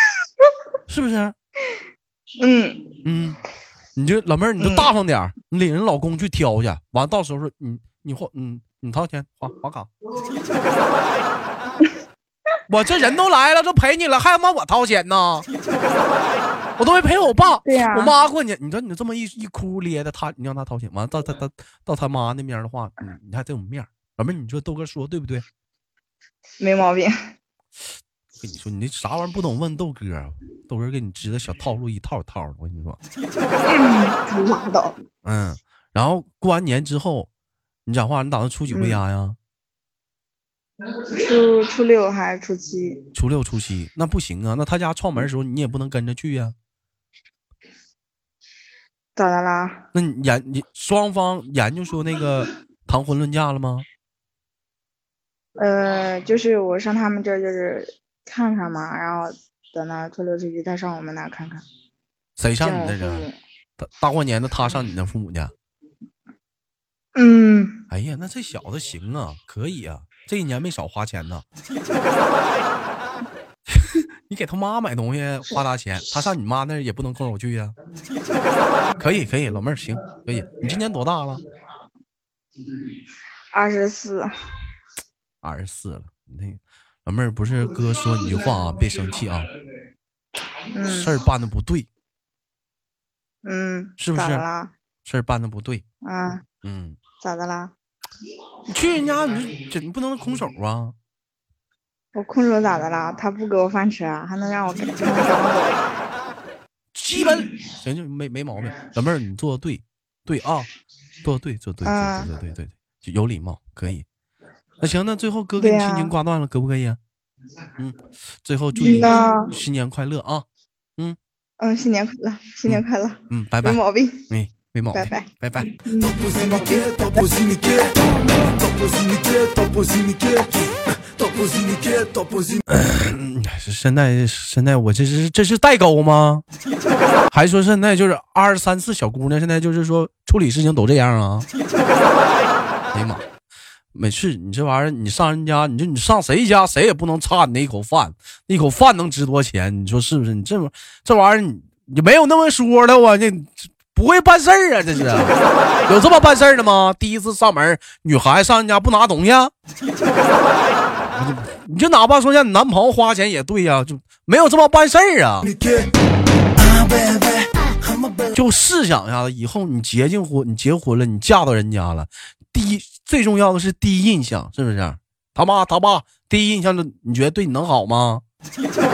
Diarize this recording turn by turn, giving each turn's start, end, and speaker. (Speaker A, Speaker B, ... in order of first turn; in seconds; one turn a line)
Speaker A: 0.9-1.4
Speaker B: 2.4-3.0
Speaker A: 3.0-3.4
Speaker A: 4.0-9.9
Speaker B: 4.6-4.9
Speaker A: 12.7-15.5
Speaker A: 16.8-25.4
Speaker B: 17.6-18.1
Speaker B: 26.6-27.1
Speaker A: 28.4-33.0
Speaker B: 33.7-35.0
Speaker A: 35.2-37.3
Speaker A: 37.9-39.4
Speaker B: 38.7-39.0
Speaker B: 40.9-43.0
Speaker A: 43.1-46.5
Speaker B: 49.2-49.8
Speaker A: 49.9-53.9
Speaker B: 55.6-61.6
Speaker A: 62.4-63.3
Speaker B: 62.6-63.4
Speaker A: 63.8-65.5
Speaker B: 67.2-67.8
Speaker A: 67.9-71.5
Speaker A: 73.7-77.8
Speaker A: 79.0-81.4
Speaker B: 83.5-84.3
Speaker A: 85.4-89.5
Speaker B: 90.7-91.2
Speaker A: 90.9-91.9
Speaker B: 93.4-94.7
Speaker A: 94.0-94.5
Speaker A: 95.0-95.8
Speaker B: 96.0-96.5
Speaker A: 96.6-97.0
Speaker B: 97.2-97.7
Speaker A: 98.7-101.0
Speaker B: 102.2-105.9
Speaker A: 106.9-110.7
Speaker A: 111.2-114.1
Speaker B: 111.8-112.3
Speaker A: 114.8-117.0
Speaker B: 115.6-116.1
Speaker A: 117.8-120.5
Speaker B: 118.8-119.5
Speaker B: 121.6-124.3
Speaker A: 122.7-125.7
Speaker B: 124.9-125.3
Speaker B: 125.8-127.8
Speaker A: 132.7-136.4
Speaker A: 137.3-141.5
Speaker A: 142.9-143.3
Speaker A: 143.9-155.3
Speaker A: 155.9-159.5
Speaker A: 161.0-165.6
Speaker A: 168.3-178.2